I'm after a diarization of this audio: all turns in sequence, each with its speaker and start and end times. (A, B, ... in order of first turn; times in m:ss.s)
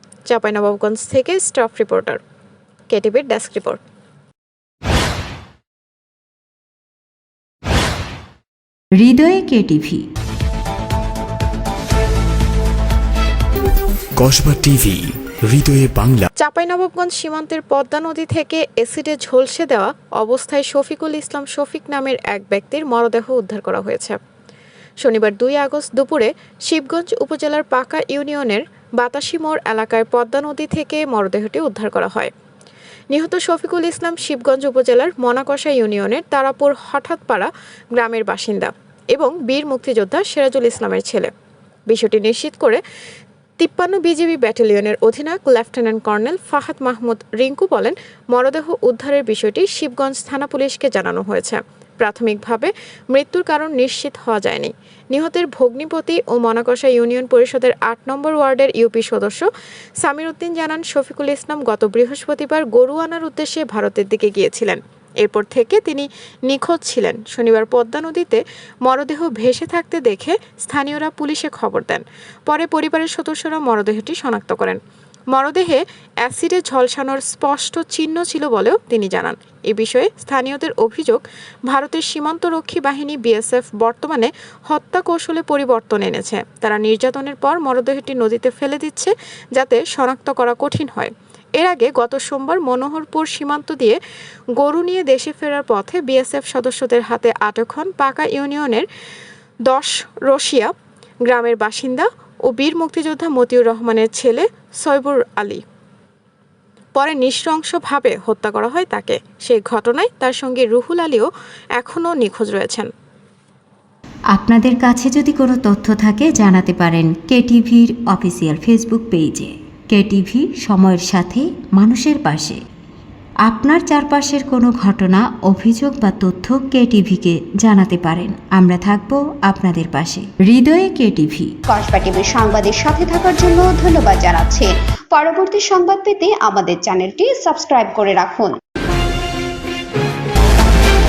0:00.3-0:02.2 A
0:02.9-0:03.8 A
0:09.0-0:10.0 B
0:14.2-0:16.3 C
0:16.4-0:24.2 A
0:25.0-0:32.3 A
0:33.1-0:41.3 A
0:41.9-0:42.8 A
0:43.6-0:59.5 A
1:00.0-1:14.8 A
1:15.3-1:34.0 A
1:34.6-1:38.8 A
1:39.7-1:40.7 A
1:41.2-1:45.6 A
1:47.0-1:52.9 A
1:54.3-2:02.6 B
2:03.5-2:11.5 B
2:11.7-2:18.5 D